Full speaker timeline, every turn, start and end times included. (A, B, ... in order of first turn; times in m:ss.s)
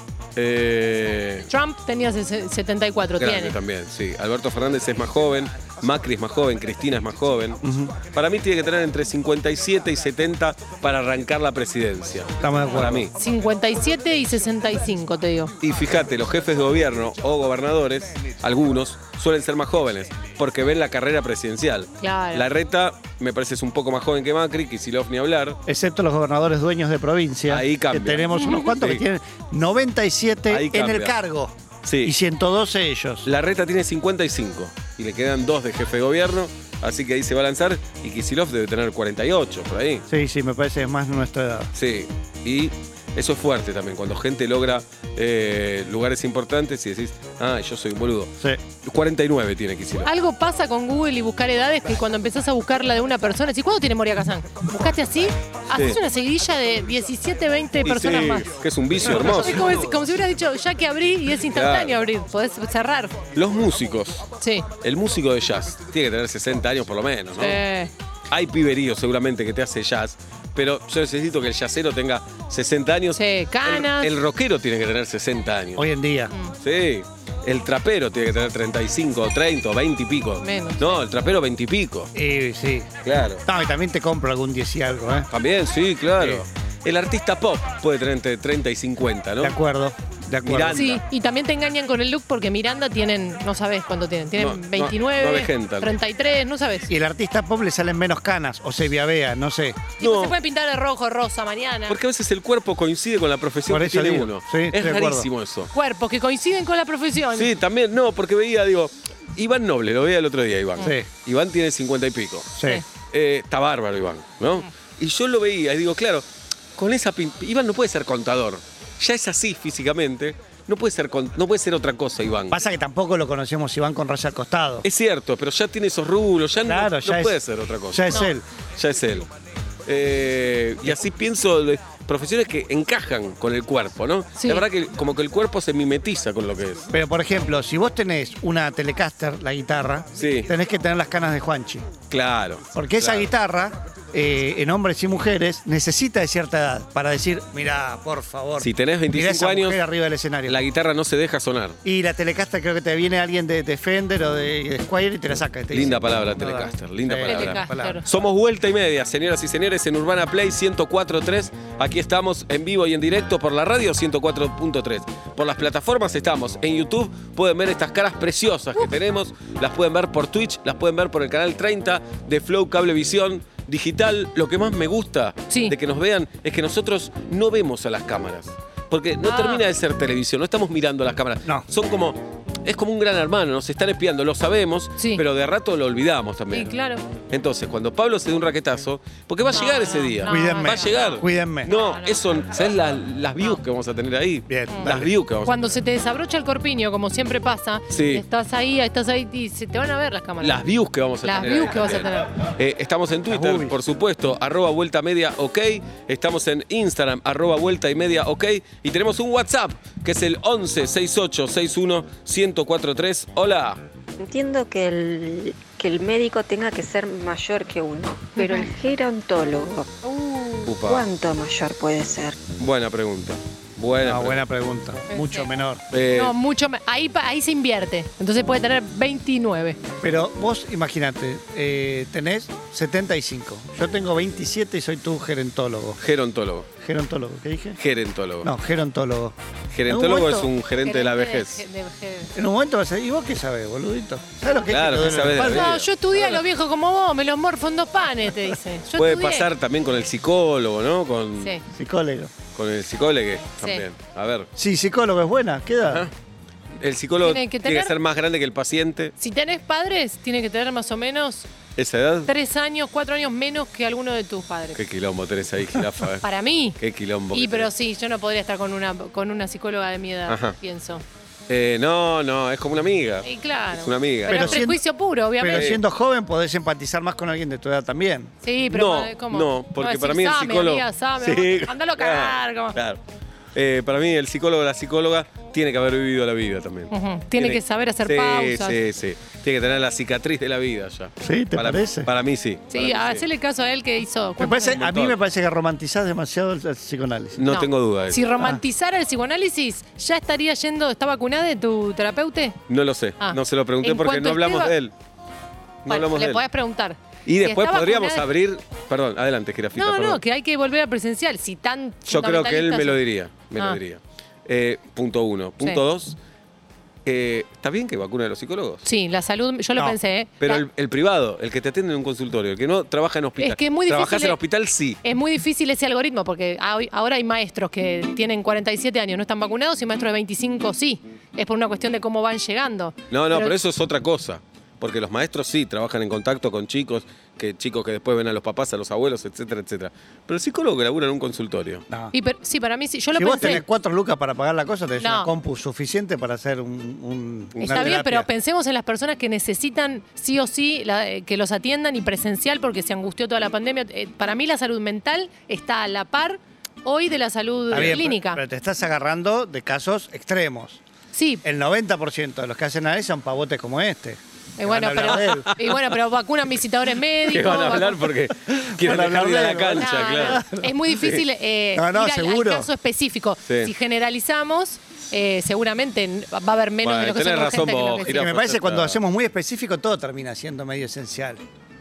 0:00.4-0:01.5 A
0:01.5-0:03.5 B
0:03.2-0:13.1 A
0:07.6-0:08.0 C
0:12.4-0:13.1 C
0:12.7-0:15.5 B
0:15.6-0:25.6 A
0:22.0-0:22.4 B
0:25.6-0:33.3 C
0:27.5-0:29.0 A
0:28.3-0:28.7 B
0:30.5-0:31.1 A
0:31.8-0:32.1 A
0:33.2-0:40.0 A
0:40.1-0:41.7 C
0:41.7-0:50.1 A
0:50.0-0:58.5 B
0:57.8-0:59.9 A
0:59.0-1:03.2 B
1:01.5-1:02.0 A
1:03.3-1:04.3 A
1:04.4-1:04.7 B
1:04.8-1:07.6 A
1:07.4-1:07.9 B
1:08.3-1:15.9 A
1:13.1-1:14.1 B
1:15.8-1:16.3 C
1:16.6-1:22.1 A
1:20.4-1:21.0 B
1:22.1-1:22.9 C
1:23.0-1:23.4 A
1:23.4-1:25.3 C
1:25.3-1:29.6 A
1:26.2-1:26.4 C
1:29.4-1:31.0 C
1:30.4-1:31.0 A
1:30.7-1:36.9 B
1:34.4-1:35.9 A
1:36.9-1:39.9 C
1:40.0-1:42.0 B
1:40.0-1:40.3 A
1:41.9-1:45.7 A
1:43.6-1:45.3 C
1:45.7-1:47.5 B
1:47.3-1:56.2 A
1:50.8-1:51.1 C
1:52.6-1:52.8 C
1:56.8-2:02.6 A
2:02.5-2:04.8 C
2:04.8-2:08.1 A
2:06.7-2:07.4 C
2:07.9-2:08.4 C
2:08.8-2:09.3 A
2:09.8-2:16.9 A
2:14.4-2:14.6 B
2:16.9-2:21.8 C
2:20.2-2:20.5 A
2:22.1-2:23.3 A
2:22.7-2:30.6 C
2:28.6-2:29.8 A
2:30.4-2:31.8 A
2:31.8-2:38.0 C
2:35.7-3:06.7 A
2:37.3-2:38.0 B
2:55.5-2:55.7 B
2:59.2-2:59.6 B
3:05.0-3:05.2 B
3:06.5-3:07.0 B
3:07.3-3:15.8 A
3:09.5-3:12.2 B
3:10.3-3:11.7 C
3:14.5-3:15.1 C
3:15.4-3:20.6 B
3:17.9-3:18.2 A
3:20.4-3:33.8 A
3:21.2-3:22.3 B
3:23.3-3:23.8 C
3:34.2-3:40.0 D
3:38.4-3:38.7 B
3:40.0-3:40.7 B
3:40.6-3:41.1 A
3:40.8-3:42.4 D
3:42.6-3:44.4 A
3:44.0-3:45.8 C
3:45.1-3:45.5 B
3:45.9-3:46.3 A
3:46.1-3:49.8 B
3:50.0-3:56.0 C
3:56.0-3:56.7 A
3:56.8-3:57.8 C
3:57.8-3:58.5 A
3:58.4-3:59.4 C
3:59.7-4:01.6 A
3:59.9-4:02.3 B
4:00.0-4:00.4 C
4:02.3-4:05.7 C
4:04.7-4:06.4 A
4:05.4-4:09.5 B
4:08.9-4:11.5 A
4:11.7-4:12.3 C
4:12.5-4:14.5 A
4:14.6-4:16.1 C
4:16.8-4:19.1 A
4:17.2-4:17.9 B
4:19.2-4:21.5 B
4:21.8-4:22.3 A
4:22.3-4:24.8 B
4:24.7-4:26.2 A
4:26.2-4:26.8 B
4:26.8-4:27.7 A
4:27.3-4:31.0 B
4:30.3-4:30.6 A
4:31.5-4:34.6 A
4:33.2-4:35.7 B
4:34.3-4:34.8 C
4:35.4-4:38.3 C
4:35.5-4:35.8 A
4:38.4-4:42.8 B
4:38.7-4:43.0 A
4:43.5-4:53.2 A
4:46.9-4:48.8 B
4:51.2-4:52.1 C
4:52.7-4:54.8 B
4:54.4-4:57.4 C
4:54.7-4:55.2 A
4:57.4-4:58.3 A
4:57.4-5:02.6 B
5:02.7-5:04.9 A
5:03.2-5:04.7 B
5:05.8-5:06.4 A
5:05.9-5:08.2 B
5:07.2-5:10.2 A
5:09.8-5:13.0 B
5:12.1-5:16.2 A
5:17.0-5:18.8 A
5:18.8-5:20.6 B
5:20.4-5:25.0 A
5:23.4-5:24.4 B
5:25.0-5:33.5 B
5:33.1-5:41.8 A
5:42.1-5:43.6 B
5:43.1-5:48.3 C
5:45.0-5:45.3 B
5:47.5-5:48.0 A
5:47.6-5:58.4 B
5:57.7-5:58.0 A
5:57.7-6:00.8 C
6:01.1-6:01.4 B
6:01.4-6:05.5 C
6:04.6-6:08.0 B
6:05.2-6:05.8 A
6:07.3-6:10.4 A
6:08.5-6:10.7 C
6:09.8-6:18.2 B
6:10.9-6:11.2 A
6:11.7-6:12.7 C
6:13.4-6:13.7 A
6:16.8-6:19.0 A
6:18.0-6:21.4 C